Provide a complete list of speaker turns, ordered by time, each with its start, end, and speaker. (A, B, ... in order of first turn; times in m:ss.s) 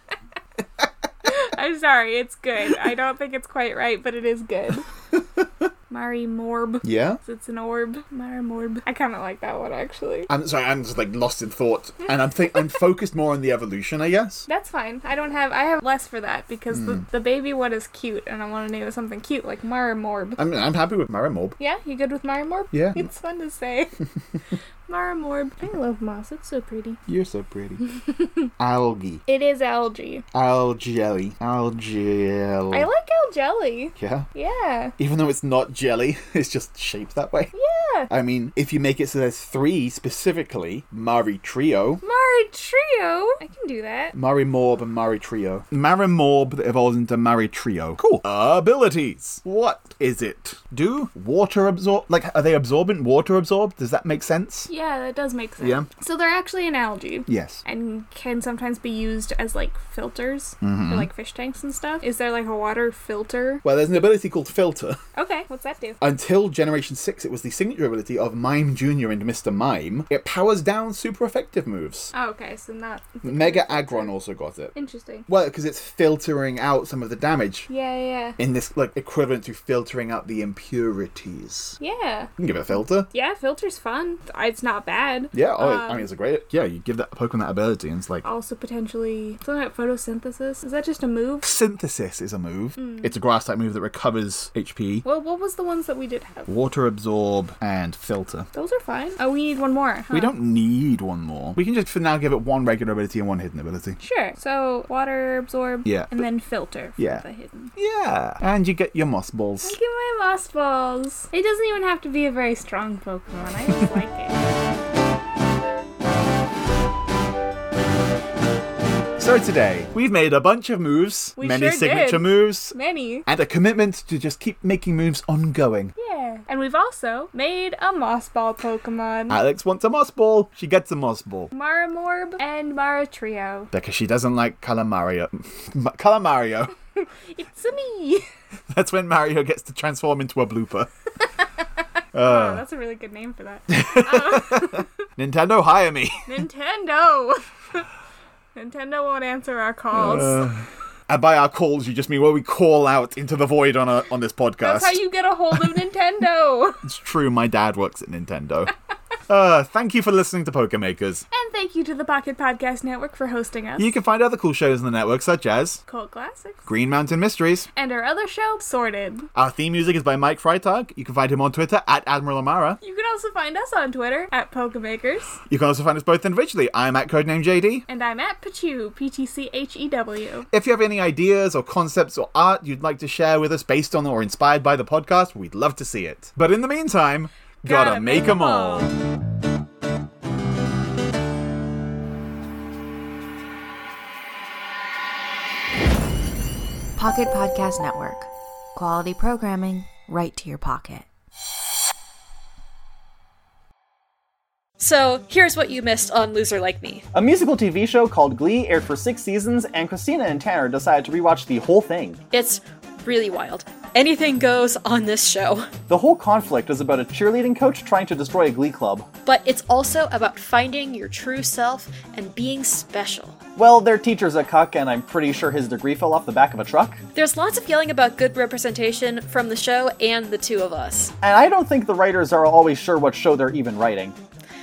0:01.2-0:04.9 A
0:05.1-0:05.7 B
0:05.9-0:10.3 A
0:06.8-0:07.2 B
0:10.3-0:14.4 B
0:14.5-0:20.4 A
0:16.7-0:17.0 B
0:20.4-0:21.6 B
0:21.6-0:23.9 A
0:22.7-0:23.1 B
0:24.9-0:27.0 A
0:27.1-0:27.8 B
0:27.8-0:28.5 A
0:28.6-0:29.2 B
0:29.3-0:30.2 A
0:30.3-0:32.9 B
0:32.7-0:34.9 A
0:34.0-0:34.3 B
0:35.0-0:37.5 B
0:37.5-0:38.1 A
0:38.1-0:42.0 B
0:42.0-0:44.1 A
0:44.1-0:54.7 B
0:54.7-1:03.6 A
0:55.6-0:55.9 B
0:57.3-0:57.6 B
1:00.6-1:01.1 B
1:03.6-1:05.0 B
1:05.2-1:06.0 A
1:06.0-1:12.1 B
1:12.1-1:14.1 A
1:13.2-1:14.7 B
1:14.7-1:15.2 A
1:15.3-1:17.7 B
1:17.7-1:18.4 A
1:18.4-1:21.8 B
1:21.8-1:22.3 A
1:22.4-1:23.1 B
1:23.1-1:26.1 A
1:25.3-1:28.2 B
1:28.2-1:31.5 A
1:31.4-1:35.0 B
1:32.8-1:33.1 A
1:35.0-1:36.5 A
1:36.5-1:38.5 B
1:38.5-1:40.3 A
1:40.1-1:44.0 B
1:44.0-1:47.7 A
1:45.8-1:46.2 B
1:47.0-1:47.2 B
1:47.8-1:49.8 B
1:49.6-1:54.5 A
1:59.2-2:05.9 B
2:01.4-2:03.2 A
2:06.0-2:09.4 A
2:09.3-2:11.5 B
2:11.5-2:13.7 A
2:13.7-2:16.7 B
2:17.3-2:18.3 A
2:18.7-2:20.9 B
2:22.1-2:22.6 B
2:22.2-2:24.9 A
2:23.7-2:26.3 B
2:26.2-2:27.8 A
2:28.5-2:30.5 A
2:29.9-2:35.0 B
2:34.6-2:36.8 A
2:35.5-2:35.8 B
2:36.8-2:38.7 B
2:39.3-2:41.2 B
2:41.3-2:43.9 A
2:43.8-2:45.8 B
2:45.9-2:46.6 A
2:46.6-2:47.7 B
2:47.7-2:49.3 A
2:49.3-2:52.8 B
2:52.8-2:55.4 A
2:55.5-2:57.8 B
2:57.9-3:00.5 A
3:00.5-3:08.9 B
3:07.6-3:08.9 A
3:17.0-3:21.0 C
3:24.8-3:27.0 D
3:27.1-3:32.2 E
3:32.3-3:35.7 D
3:35.9-3:39.1 E
3:39.2-3:43.4 D
3:43.6-3:47.0 E
3:47.1-3:51.1 D
3:51.2-3:54.2 E